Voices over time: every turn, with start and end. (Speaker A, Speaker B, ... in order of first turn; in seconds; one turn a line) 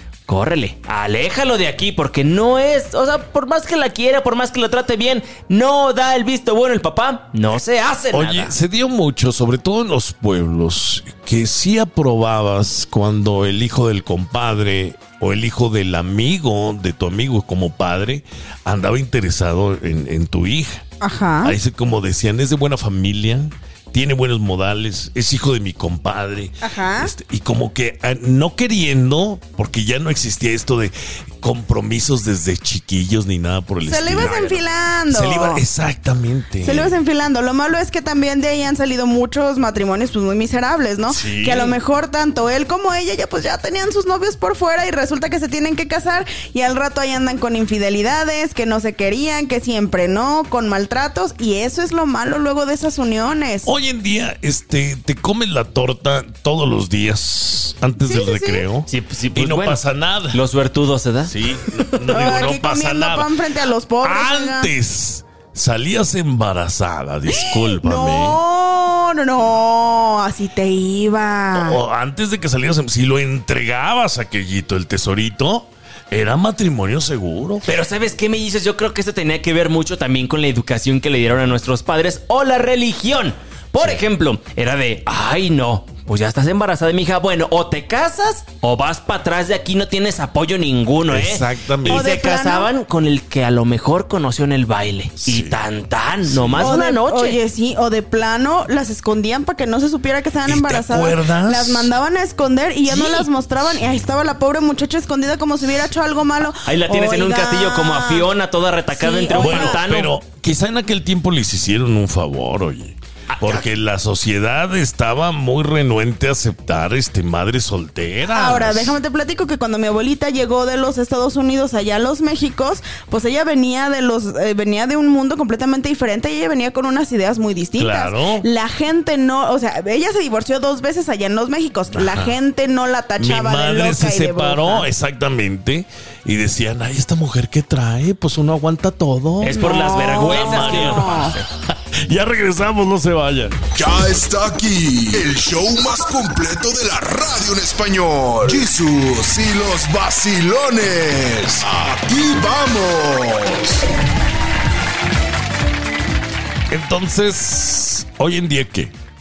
Speaker A: 0.3-8.6
Speaker B: 8.1-20.9
Speaker C: 21.0-21.6
Speaker B: 21.4-34.4
Speaker C: 26.6-27.1
Speaker C: 33.9-35.6
Speaker A: 34.1-34.6
Speaker B: 35.1-37.0
Speaker C: 36.6-53.7
Speaker B: 41.1-41.8
Speaker B: 53.6-60.4
Speaker C: 58.0-58.7
Speaker A: 58.9-61.9
Speaker B: 61.3-63.3
Speaker C: 62.1-64.7
Speaker B: 64.0-68.4
Speaker C: 67.3-71.8
Speaker B: 71.5-77.7
Speaker A: 77.7-97.4
Speaker B: 91.1-92.1
Speaker C: 91.8-92.7
Speaker B: 95.2-95.6
Speaker B: 96.2-96.8
Speaker C: 96.6-108.3
Speaker B: 100.5-101.9
Speaker A: 102.9-103.3
Speaker A: 106.7-110.1
Speaker C: 108.9-109.8
Speaker B: 109.3-119.0
Speaker A: 113.3-113.7
Speaker C: 118.3-134.9
Speaker B: 127.8-128.4
Speaker B: 131.9-132.3
Speaker B: 133.2-143.6
Speaker A: 139.4-141.4
Speaker C: 139.6-141.4
Speaker D: 143.8-153.8
Speaker B: 156.7-158.9